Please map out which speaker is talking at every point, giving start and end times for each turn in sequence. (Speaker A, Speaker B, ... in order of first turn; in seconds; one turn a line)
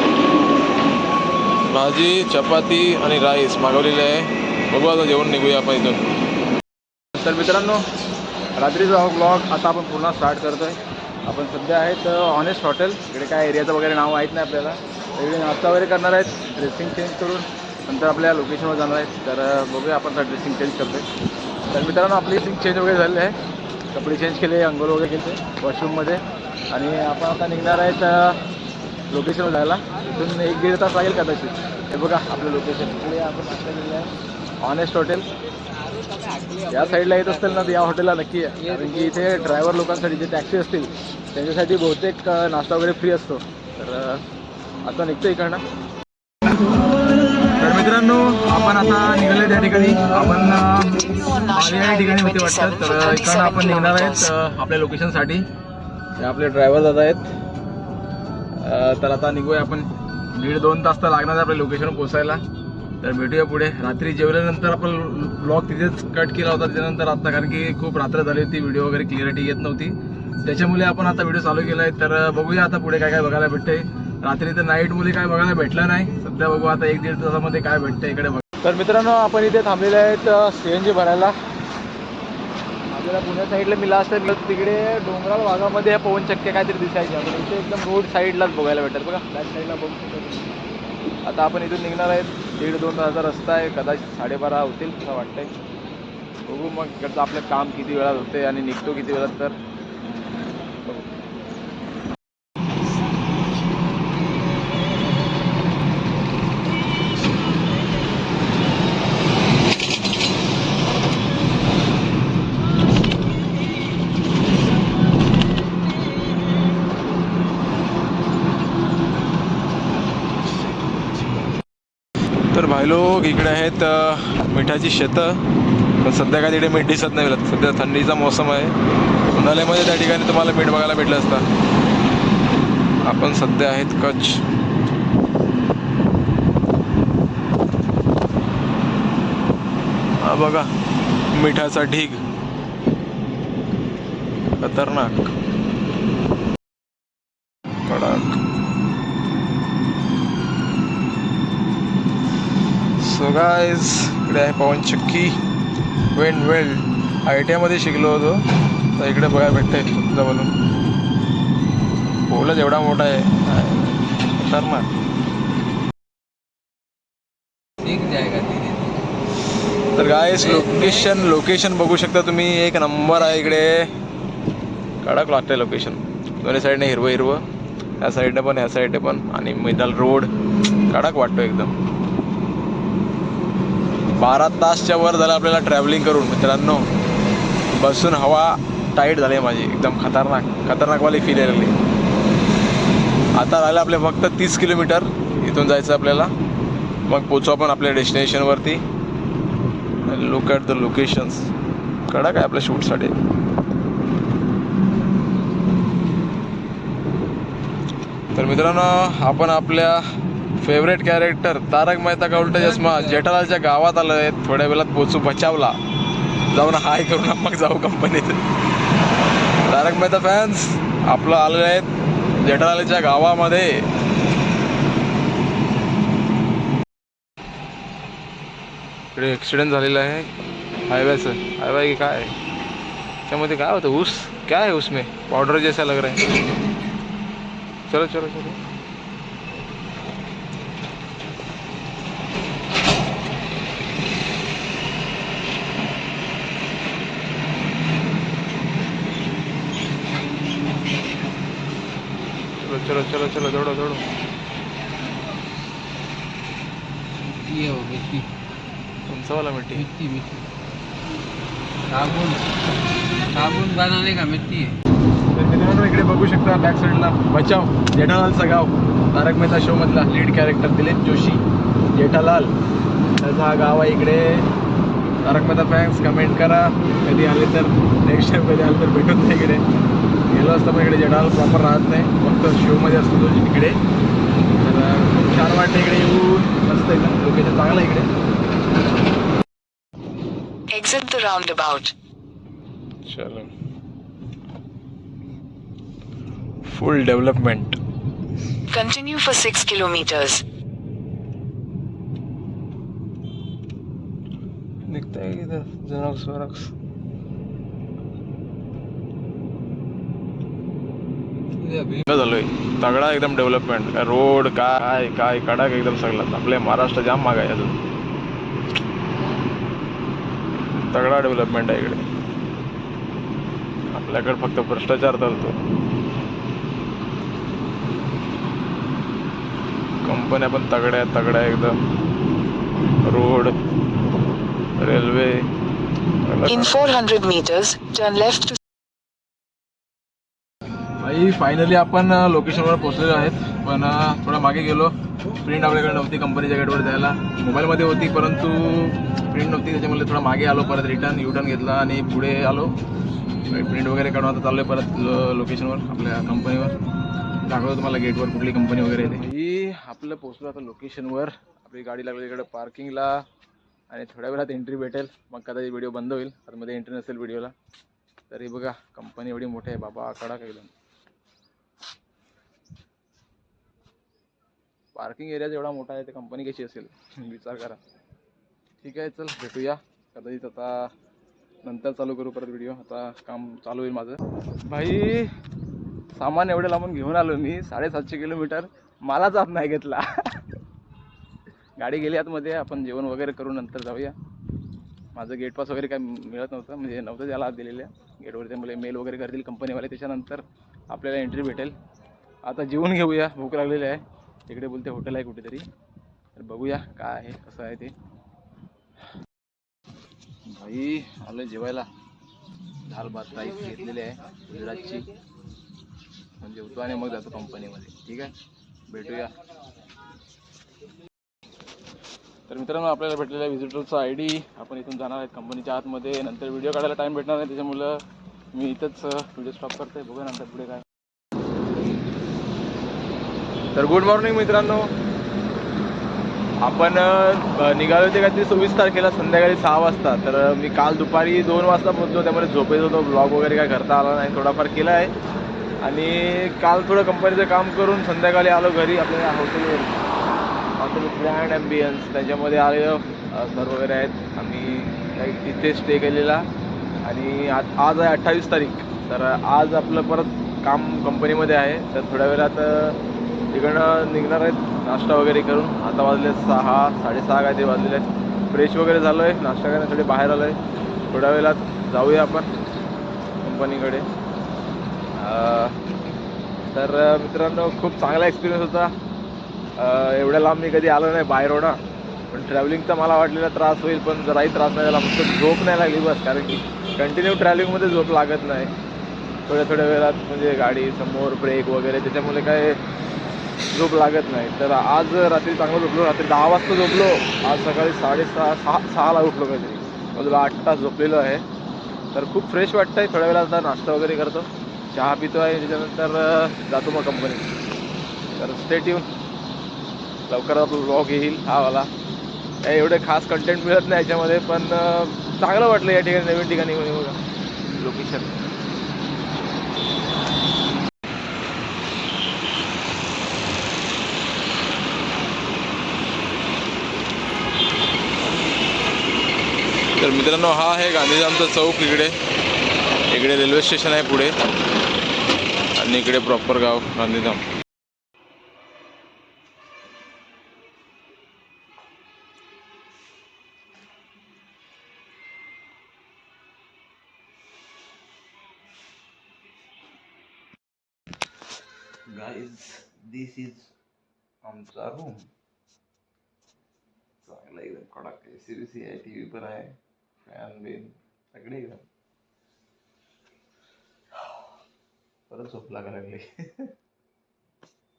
Speaker A: 1.6-6.1
Speaker A: 7.1-7.8
Speaker A: 8.5-21.1
Speaker A: 21.7-23.4
Speaker A: 23.9-28.4
Speaker A: 29.1-35.3
Speaker B: 36.3-36.5
Speaker A: 36.7-44.2
Speaker A: 44.8-45.6
Speaker A: 47.6-55.4
Speaker C: 50.9-54.3
Speaker A: 56.2-57.3
Speaker A: 58.6-62.4
Speaker A: 63.0-81.3
Speaker A: 82.9-90.5
Speaker A: 91.2-95.5
Speaker A: 96.4-99.5
Speaker A: 122.5-125.4
Speaker A: 126.0-128.7
Speaker A: 129.3-131.5
Speaker A: 133.0-134.4
Speaker A: 140.2-140.7
Speaker A: 141.3-142.2
Speaker A: 144.6-145.3
Speaker A: 147.8-148.4
Speaker A: 153.0-155.4
Speaker A: 156.1-158.4
Speaker A: 158.9-160.5
Speaker A: 162.3-164.9
Speaker B: 167.8-168.8
Speaker A: 169.9-173.9
Speaker B: 170.4-171.1
Speaker A: 175.0-177.4
Speaker A: 178.0-180.3
Speaker A: 180.9-181.7
Speaker A: 184.2-186.9
Speaker A: 187.7-191.8
Speaker A: 193.3-196.3
Speaker A: 197.1-198.8
Speaker A: 200.0-201.5
Speaker A: 202.1-203.1
Speaker A: 208.3-210.0
Speaker A: 210.6-215.8
Speaker B: 212.4-213.0
Speaker A: 216.5-218.4
Speaker A: 219.7-223.8
Speaker A: 229.1-230.3
Speaker A: 230.9-232.3
Speaker A: 233.3-236.3
Speaker A: 237.9-238.6
Speaker A: 252.6-254.0
Speaker B: 257.3-258.3
Speaker A: 259.1-259.9
Speaker B: 259.8-260.3
Speaker B: 261.9-262.4
Speaker B: 263.3-264.8
Speaker A: 265.3-271.4
Speaker A: 271.9-272.5
Speaker A: 273.2-274.4
Speaker A: 275.2-279.6
Speaker A: 280.3-283.8
Speaker A: 284.6-288.1
Speaker C: 290.7-291.9
Speaker A: 293.1-293.5
Speaker A: 296.6-297.8
Speaker C: 298.7-300.4
Speaker A: 304.8-306.7
Speaker A: 311.7-317.8
Speaker A: 320.7-322.1
Speaker A: 323.9-325.6
Speaker A: 330.0-331.8
Speaker A: 333.0-333.6
Speaker A: 334.8-335.5
Speaker A: 336.2-336.9
Speaker C: 336.5-338.6
Speaker A: 341.0-352.7
Speaker A: 353.5-356.7
Speaker A: 357.4-363.1
Speaker A: 363.9-367.5
Speaker A: 368.3-370.7
Speaker A: 374.9-377.8
Speaker A: 378.8-380.9
Speaker A: 381.6-385.3
Speaker A: 386.1-390.4
Speaker A: 391.8-394.1
Speaker A: 395.1-401.7
Speaker A: 402.4-405.7
Speaker A: 406.3-407.9
Speaker A: 410.5-411.9
Speaker A: 412.9-415.1
Speaker A: 416.4-418.3
Speaker A: 418.9-419.3
Speaker A: 422.5-428.0
Speaker A: 428.5-430.9
Speaker A: 433.7-434.9
Speaker A: 436.6-445.1
Speaker A: 445.8-450.0
Speaker A: 450.8-456.4
Speaker A: 457.0-463.0
Speaker A: 463.5-470.6
Speaker A: 471.1-472.5
Speaker A: 473.4-474.1
Speaker A: 475.2-475.8
Speaker A: 476.7-478.9
Speaker A: 479.8-481.8
Speaker A: 482.3-488.7
Speaker A: 489.5-492.8
Speaker A: 493.7-501.4
Speaker A: 502.1-507.5
Speaker A: 508.3-509.1
Speaker A: 510.3-511.9
Speaker A: 512.6-517.2
Speaker A: 517.7-518.4
Speaker A: 530.0-532.1
Speaker A: 533.1-534.3
Speaker A: 535.8-537.4
Speaker A: 552.1-553.7
Speaker A: 554.4-555.3
Speaker A: 557.2-561.9
Speaker A: 565.3-566.7